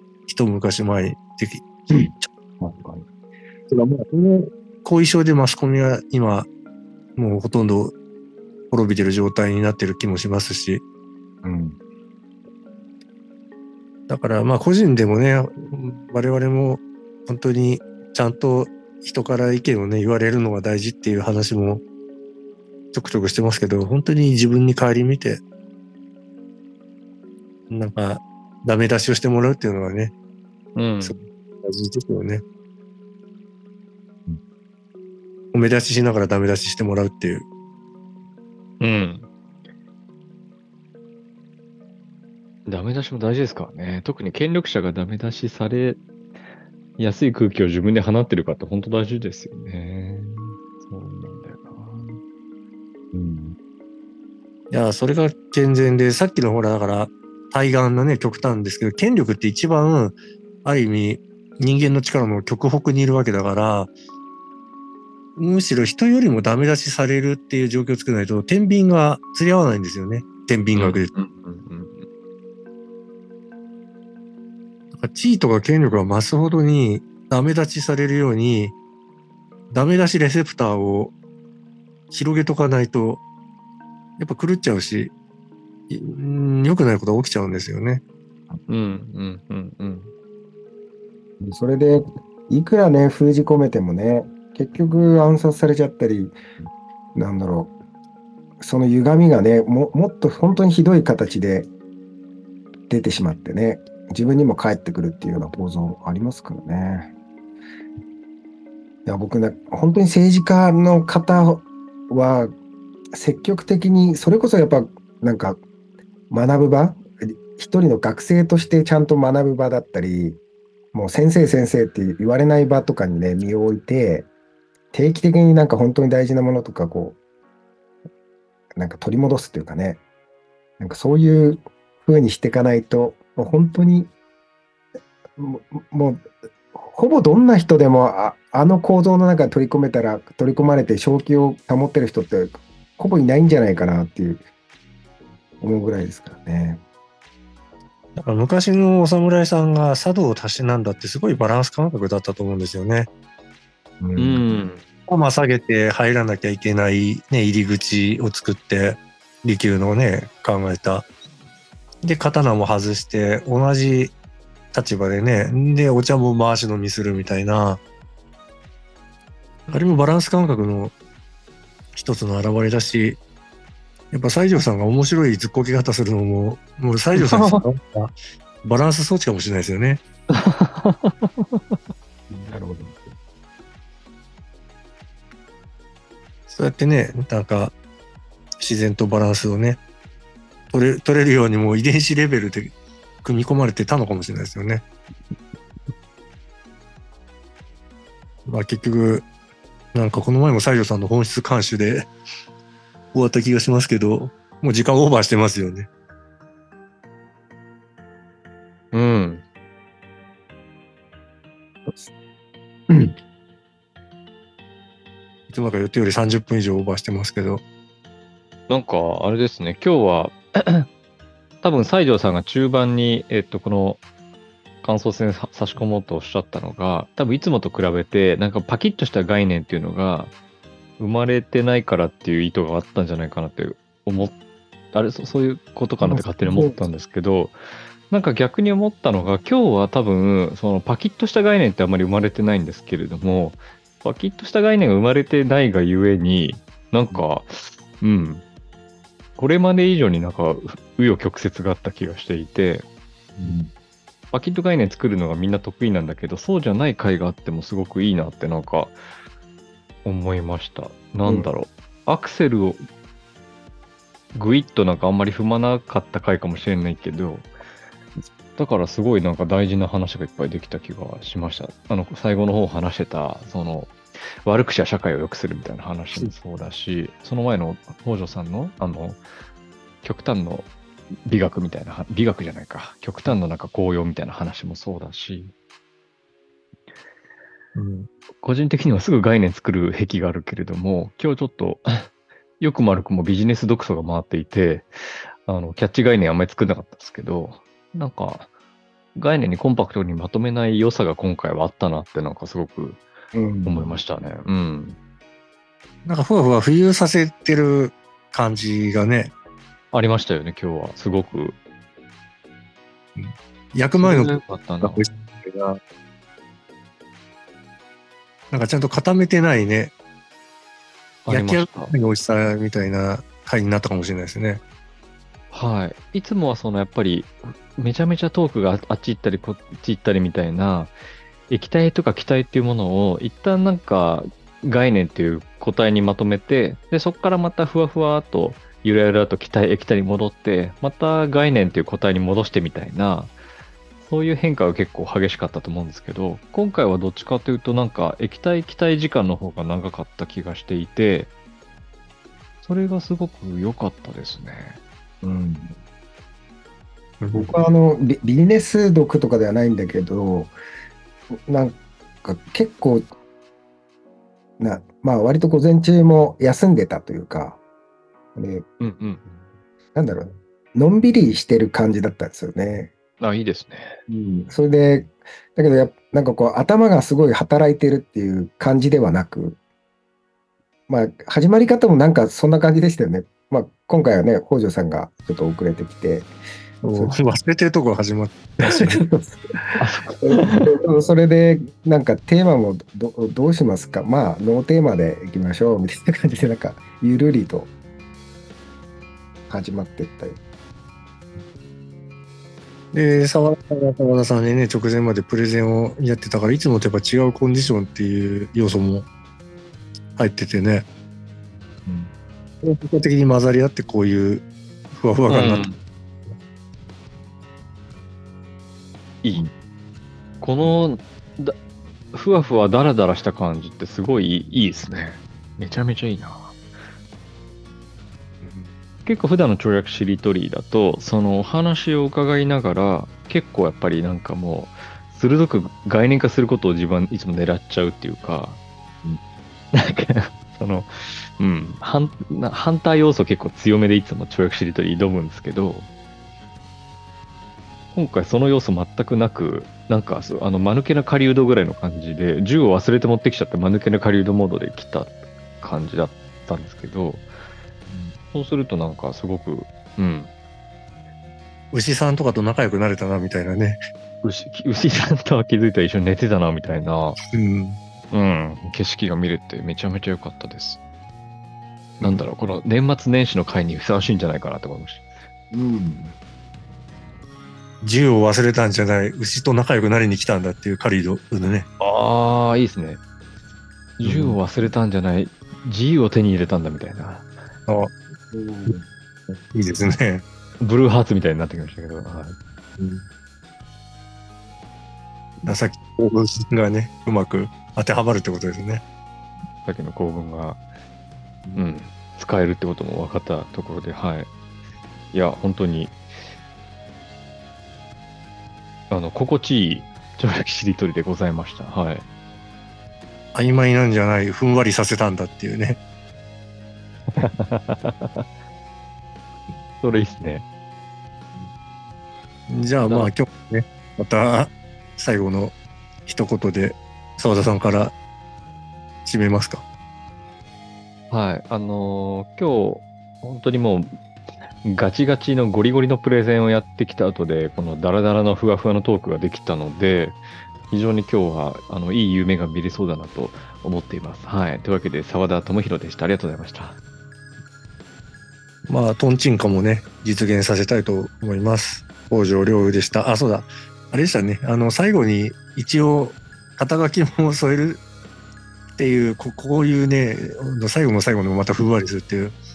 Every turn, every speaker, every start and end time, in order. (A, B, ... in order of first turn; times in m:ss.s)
0:00.3-0:02.3 A
0:01.9-0:03.0 B
0:03.7-0:06.5 A
0:07.2-0:07.9 A
0:08.7-0:10.8 A
0:11.4-0:11.8 B
0:14.1-0:21.8 A
0:22.9-0:25.4 A
0:27.7-0:30.1 A
0:30.8-0:31.2 C
0:31.0-0:32.4 A
0:35.5-0:37.5 A
0:38.8-0:39.3 C
0:42.7-0:46.0 C
0:47.0-0:52.2 C
0:53.1-0:53.6 B
0:54.7-1:03.9 A
1:05.4-1:11.1 A
1:10.8-1:12.1 C
1:15.0-1:18.8 A
1:19.7-1:21.1 A
1:22.1-1:23.2 A
1:24.2-1:25.1 A
1:25.9-1:28.0 A
1:28.7-1:30.1 C
1:31.4-1:36.4 B
1:37.2-1:37.7 B
1:38.6-1:41.7 B
1:42.9-1:47.1 B
1:49.1-1:52.5 B
1:53.1-1:55.6 B
1:56.3-2:00.4 B
2:00.9-2:04.3 B
2:04.9-2:07.2 B
2:08.8-2:10.0 B
2:10.8-2:14.1 B
2:15.4-2:24.4 B
2:25.6-2:26.8 B
2:28.2-2:33.1 A
2:34.1-2:34.4 A
2:34.2-2:34.8 C
2:35.1-2:41.1 A
2:42.0-2:44.1 A
2:44.7-2:47.8 A
2:49.7-2:50.9 A
2:51.9-2:53.2 A
2:54.1-3:00.0 A
2:57.2-2:57.6 C
3:00.3-3:01.6 C
3:02.3-3:03.1 B
3:06.5-3:07.7 A
3:08.6-3:09.8 A
3:10.7-3:12.7 A
3:13.2-3:14.8 A
3:18.5-3:19.3 A
3:19.9-3:22.1 A
3:23.1-3:25.9 A
3:28.9-3:29.4 C
3:31.9-3:32.1 B
3:32.9-3:33.2 B
3:35.5-3:37.6 A
3:38.7-3:40.9 C
3:41.6-3:44.0 C
3:44.8-3:50.3 C
3:51.0-3:54.4 C
3:54.9-3:57.6 C
3:56.0-3:56.9 B
3:58.1-4:08.4 C
4:09.4-4:12.8 C
4:13.4-4:13.7 B
4:14.3-4:19.0 C
4:20.0-4:22.8 C
4:21.2-4:21.5 B
4:24.3-4:27.5 C
4:28.6-4:39.2 C
4:40.0-4:40.7 C
4:41.3-4:45.5 C
4:47.8-4:48.1 A
4:48.4-4:52.1 C
4:52.6-4:58.5 C
4:59.2-5:03.0 C
5:03.3-5:04.0 B
5:03.6-5:05.0 C
5:06.0-5:09.3 A
5:09.9-5:11.6 C
5:13.2-5:15.8 A
5:13.9-5:15.1 C
5:18.5-5:19.9 A
5:21.3-5:21.9 C
5:21.3-5:24.6 A
5:25.5-5:30.9 C
5:31.5-5:43.3 C
5:44.0-5:51.3 C
5:52.6-5:54.8 C
5:55.2-5:55.8 B
5:57.2-5:57.6 A
5:57.3-6:00.6 B
6:01.5-6:03.1 B
6:04.6-6:07.6 B
6:08.4-6:08.6 B
6:08.8-6:09.4 C
6:10.0-6:12.9 B
6:13.2-6:14.0 C
6:14.1-6:19.6 B
6:20.9-6:26.3 B
6:26.8-6:29.0 A
6:26.9-6:27.2 B
6:28.6-6:37.7 B
6:29.8-6:30.7 C
6:39.5-6:40.4 B
6:42.9-6:49.1 A
6:50.2-6:50.9 A
6:52.6-6:55.7 A
6:55.3-6:55.8 C
7:00.4-7:01.6 C
7:02.1-7:06.6 C
7:08.4-7:08.7 A
7:09.1-7:19.2 C
7:19.7-7:25.9 C
7:27.9-7:37.3 C
7:38.3-7:40.3 C
7:41.7-7:43.8 A
7:44.2-7:47.2 C
7:47.3-7:47.8 A
7:48.1-7:50.8 C
7:52.0-7:55.1 C
7:55.5-7:56.2 B
7:57.8-8:01.7 A
8:01.8-8:03.0 C
8:04.0-8:07.3 C
8:04.0-8:04.4 A
8:07.7-8:07.9 A
8:08.3-8:08.9 B
8:09.5-8:10.2 A
8:10.6-8:12.4 C
8:12.8-8:13.0 A
8:15.4-8:18.8 A
8:19.6-8:20.6 C
8:21.6-8:24.3 C
8:25.1-8:26.0 C
8:28.9-8:32.0 C
8:33.4-8:35.8 A
8:37.2-8:38.3 C
8:39.8-8:40.4 C
8:42.5-8:45.6 A
8:46.1-8:47.9 A
8:49.0-8:49.6 A
8:51.1-8:54.0 C
8:54.6-9:00.2 C
9:00.7-9:06.8 C
9:08.7-9:17.8 A
9:18.8-9:22.4 A